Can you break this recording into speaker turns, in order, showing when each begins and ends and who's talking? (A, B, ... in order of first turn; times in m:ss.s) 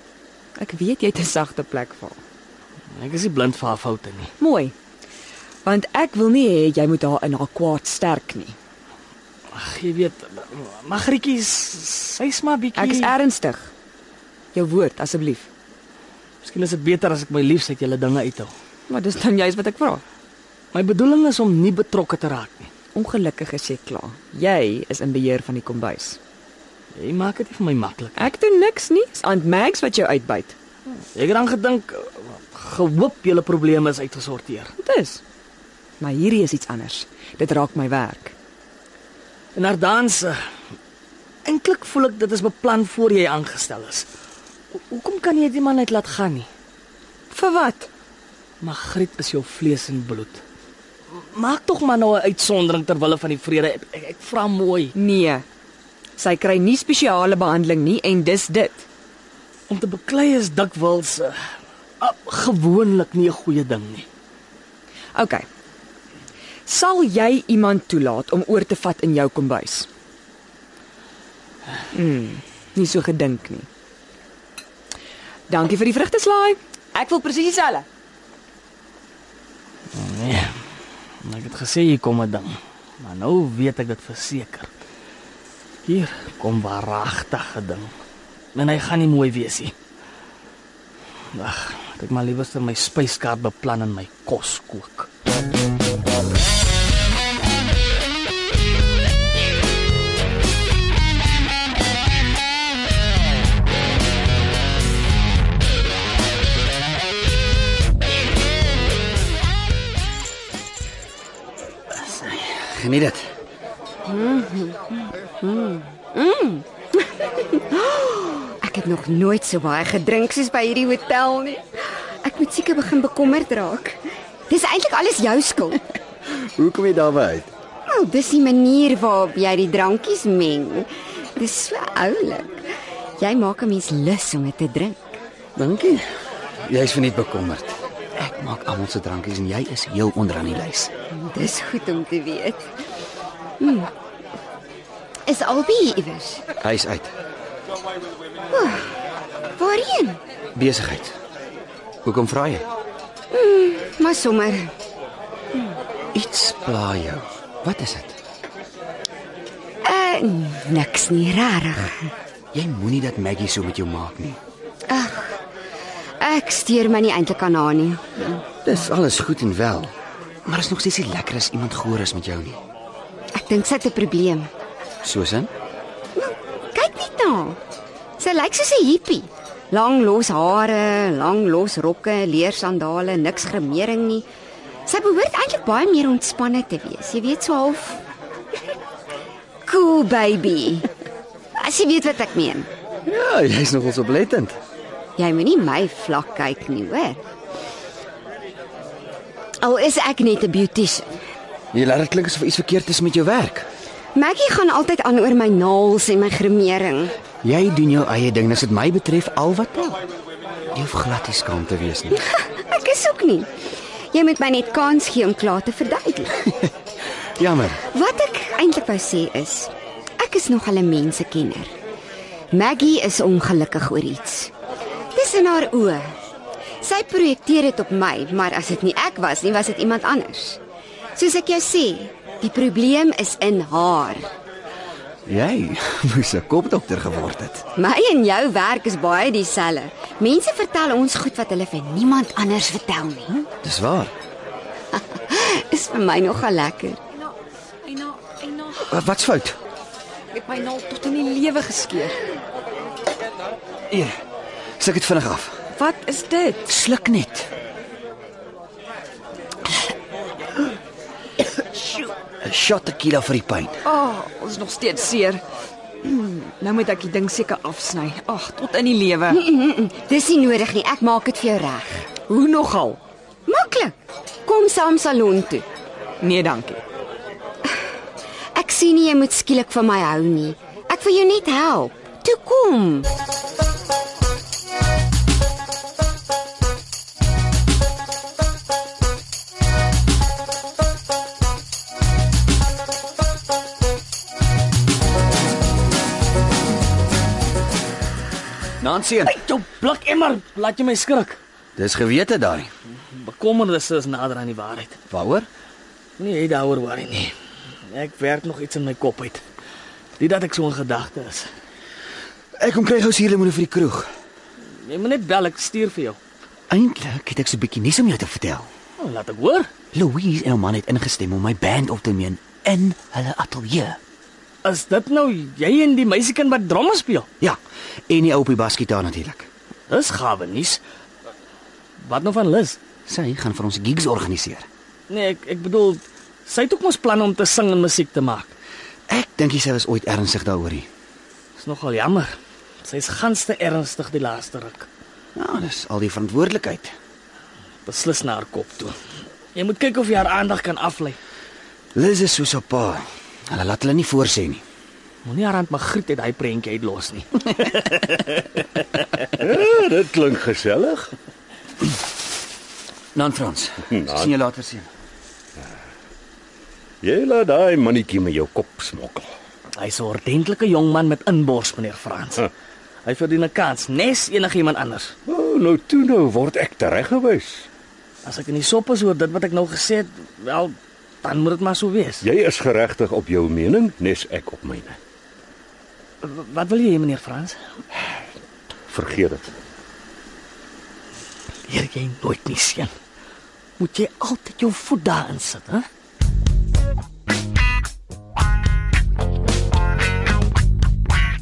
0:00.6-0:02.2 A
0:02.9-0:04.3 B
0:04.4-0:04.7 A
0:05.6-0:08.5 A
0:09.5-0:13.1 B
0:12.8-0:13.7 A
0:14.5-0:15.5 A
0:16.4-0:18.5 B
0:18.9-0:20.0 A
0:20.7-0:22.7 B
0:22.9-0:26.2 A
0:26.9-0:28.3 B
0:28.2-0:30.6 A
0:31.1-0:34.7 B
0:34.8-0:35.2 A
0:36.0-0:38.3 A
0:39.6-0:40.4 B
0:41.4-0:44.1 B
0:44.7-0:46.5 B
0:47.3-0:47.9 A
0:48.6-0:50.4 B
0:51.1-0:54.9 B
0:54.9-0:55.4 A
0:56.2-0:58.9 A
0:59.7-1:01.4 B
1:02.0-1:04.1 B
1:05.1-1:05.4 A
1:06.7-1:09.9 A
1:11.9-1:13.7 A
1:15.5-1:17.9 A
1:19.9-1:20.6 B
1:21.2-1:24.7 B
1:25.8-1:27.9 B
1:28.5-1:29.8 B
1:31.3-1:35.1 B
1:51.9-1:53.3 C
1:54.0-2:01.6 D
2:02.2-2:05.8 D
2:06.3-2:07.5 C
2:07.9-2:15.1 D
2:15.6-2:16.1 C
2:16.6-2:20.9 C
2:21.1-2:22.7 D
2:23.6-2:23.9 D
2:25.3-2:26.4 D
2:26.6-2:27.1 C
2:28.5-2:28.9 D
2:29.6-2:30.2 D
2:30.5-2:31.1 C
2:32.0-2:32.6 C
2:33.3-2:34.7 D
2:36.1-2:38.2 C
2:39.8-2:42.1 D
2:42.5-2:44.4 C
2:44.9-2:45.4 D
2:46.2-2:48.4 D
2:48.6-2:49.9 C
2:50.4-2:52.6 C
2:53.3-2:54.5 D
2:55.0-2:55.5 C
2:56.2-2:57.6 D
2:58.2-3:04.3 D
3:04.9-3:08.0 D
3:09.6-3:10.9 D
3:11.6-3:12.7 D
3:13.1-3:14.6 C
3:15.2-3:17.2 D
3:19.6-3:21.2 D
3:21.7-3:23.7 C
3:24.1-3:27.2 D
3:27.4-3:30.0 C
3:30.7-3:32.2 C
3:32.3-3:33.5 D
3:34.1-3:36.4 D
3:37.4-3:37.8 C
3:37.8-3:41.7 D
3:42.5-3:44.5 D
3:45.1-3:46.1 D
3:46.8-3:50.6 D
3:51.2-3:54.3 D
3:55.3-3:57.6 C
3:57.8-4:03.3 D
4:03.3-4:04.1 C
4:04.9-4:07.0 D
4:07.9-4:08.8 A
4:08.9-4:09.6 C
4:10.3-4:12.2 A
4:13.9-4:14.2 C
4:14.8-4:15.6 C
4:15.7-4:16.8 A
4:16.7-4:17.5 C
4:21.8-4:23.8 C
4:23.8-4:25.4 A
4:26.0-4:29.4 A
4:29.3-4:32.0 D
4:32.3-4:33.0 A
4:33.5-4:33.9 D
4:34.4-4:35.6 D
4:36.2-4:36.8 A
4:38.6-4:43.1 D
4:58.8-4:59.4 C
4:59.2-5:01.4 B
5:01.8-5:02.7 C
5:03.1-5:05.0 B
5:05.1-5:05.5 C
5:06.2-5:07.3 B
5:07.9-5:09.4 B
5:10.2-5:11.5 B
5:12.6-5:14.1 C
5:14.8-5:16.2 B
5:16.7-5:18.7 C
5:19.0-5:19.7 B
5:19.9-5:24.0 C
5:24.6-5:27.3 B
5:27.4-5:29.5 C
5:29.9-5:30.8 B
5:32.0-5:32.8 B
5:33.0-5:34.7 C
5:35.1-5:38.5 B
5:39.1-5:40.9 C
5:41.6-5:42.3 B
5:42.8-5:44.9 B
5:45.4-5:46.9 C
5:47.9-5:49.0 B
5:49.5-5:51.2 B
5:51.9-5:54.6 C
5:55.2-5:58.8 B
5:59.4-6:01.1 E
6:03.1-6:04.9 C
6:07.0-6:09.3 E
6:09.8-6:12.5 B
6:13.0-6:15.1 B
6:15.3-6:17.7 E
6:18.2-6:22.2 B
6:22.2-6:25.0 E
6:26.2-6:27.6 B
6:28.9-6:29.5 E
6:31.7-6:32.9 B
6:33.8-6:35.9 B